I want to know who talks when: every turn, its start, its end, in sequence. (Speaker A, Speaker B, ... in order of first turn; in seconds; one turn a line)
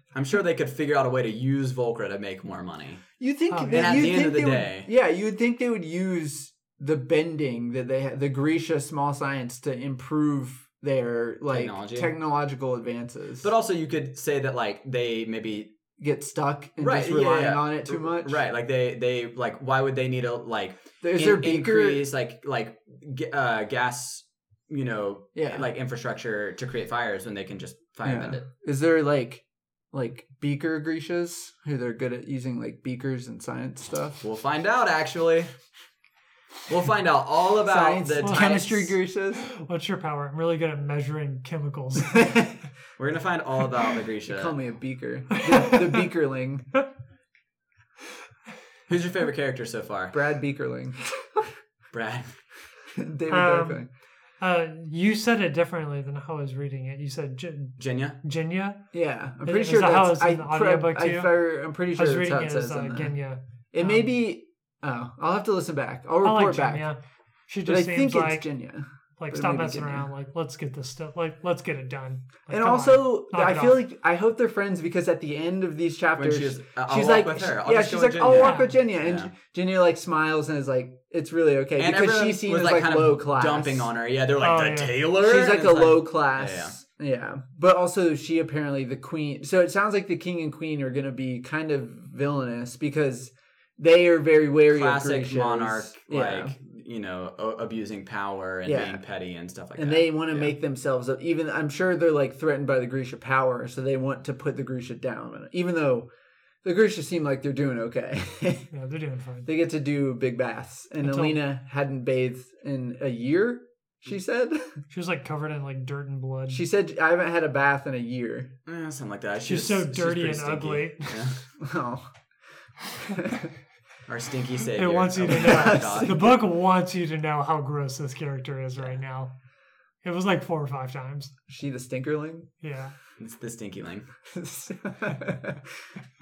Speaker A: 0.1-3.0
Speaker B: 3.2-13.5
Speaker C: 3.5-4.0
Speaker A: 3.7-4.9
Speaker A: 11.5-12.1
Speaker A: 13.4-15.7
Speaker B: 16.0-18.4
Speaker A: 16.8-28.4
Speaker B: 21.0-22.0
Speaker B: 25.4-25.7
Speaker B: 28.0-34.2
Speaker A: 34.2-35.5
Speaker A: 36.7-39.0
Speaker B: 37.6-39.5
Speaker C: 38.2-38.5
Speaker C: 39.4-42.4
Speaker B: 42.1-42.5
Speaker A: 43.0-44.5
Speaker B: 44.2-46.7
Speaker C: 45.3-45.9
Speaker A: 48.9-50.2
Speaker B: 50.1-51.4
Speaker A: 51.9-52.4
Speaker B: 52.9-53.9
Speaker C: 53.3-53.8
Speaker C: 54.4-58.8
Speaker A: 57.8-58.2
Speaker B: 58.9-63.1
Speaker C: 59.4-61.3
Speaker C: 61.9-64.1
Speaker B: 63.7-66.8
Speaker C: 66.2-68.5
Speaker B: 67.6-70.1
Speaker C: 69.2-73.8
Speaker B: 72.5-83.9
Speaker A: 76.2-79.3
Speaker C: 78.4-78.7
Speaker A: 81.8-86.7
Speaker C: 84.4-84.9
Speaker B: 85.2-96.5
Speaker A: 94.7-100.5
Speaker B: 98.7-99.0
Speaker B: 99.8-106.1
Speaker B: 106.6-108.7
Speaker C: 108.7-109.5
Speaker B: 109.5-114.8
Speaker C: 111.0-111.4
Speaker C: 114.9-116.6
Speaker B: 116.5-118.5
Speaker A: 118.7-121.4
Speaker C: 119.5-121.1
Speaker B: 121.6-122.0
Speaker C: 122.9-123.4
Speaker B: 123.1-123.4
Speaker A: 124.1-126.2
Speaker C: 124.7-129.3
Speaker B: 125.4-126.2
Speaker C: 130.0-131.3
Speaker B: 131.5-132.5
Speaker C: 132.6-132.9
Speaker A: 133.2-134.1
Speaker B: 134.3-135.9